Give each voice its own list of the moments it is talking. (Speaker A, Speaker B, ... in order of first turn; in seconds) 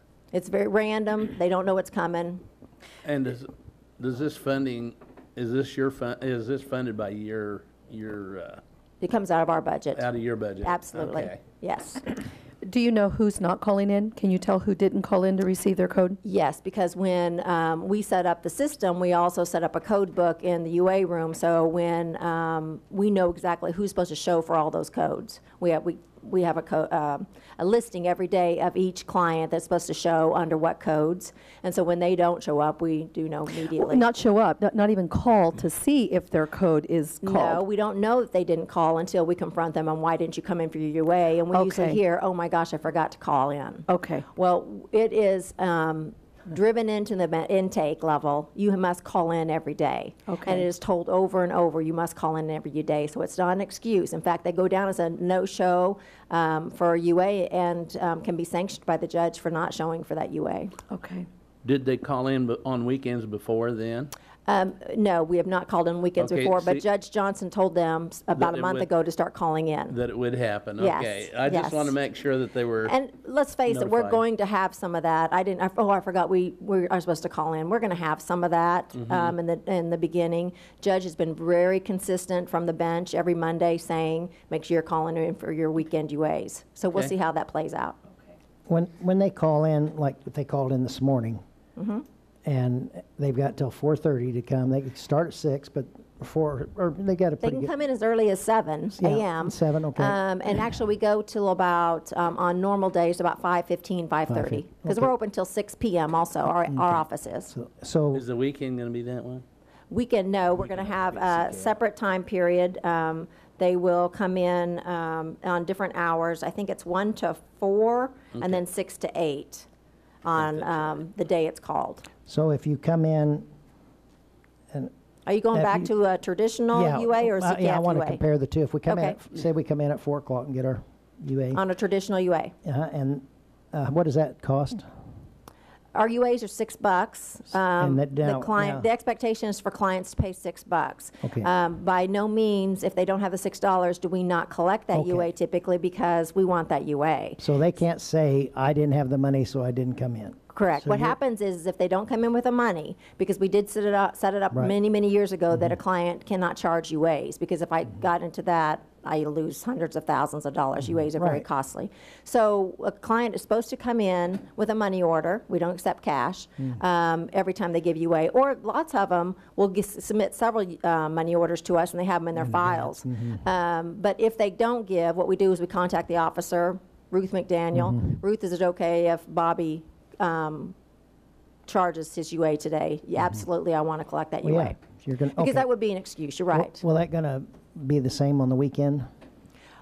Speaker A: 0.3-2.4, 9.0-10.1, 10.6-12.1, 16.2-34.0, 37.2-60.7, 64.5-70.0, 70.8-71.9, 72.8-88.0, 91.8-92.0, 97.4-107.5, 109.9-119.7, 120.2-122.0, 125.3-128.2, 128.9-129.2, 131.5-132.5, 135.9-147.4, 150.5-180.8, 181.7-184.8, 185.4-186.8
Speaker B: 3.0-3.5, 4.0-8.6, 10.0-11.4, 61.6-64.1, 66.2-66.8, 68.3-68.9, 69.9-73.0, 73.7-74.2, 79.0-79.3, 108.1-109.4, 110.8-111.7
Speaker C: 12.6-16.2, 33.7-37.6, 41.5-42.0, 43.9-44.3, 50.3-50.7, 60.9-61.3
Speaker D: 88.7-91.4, 92.5-97.7, 99.0-100.2, 104.3-105.1, 106.7-108.2, 122.3-123.5, 125.5-125.9, 126.7-131.6, 132.7-134.9, 137.8-138.9, 141.2-141.5, 144.9-145.3, 147.4-151.2, 161.2-161.4, 172.4-173.4, 177.8-178.0, 184.4-185.7, 186.5-189.1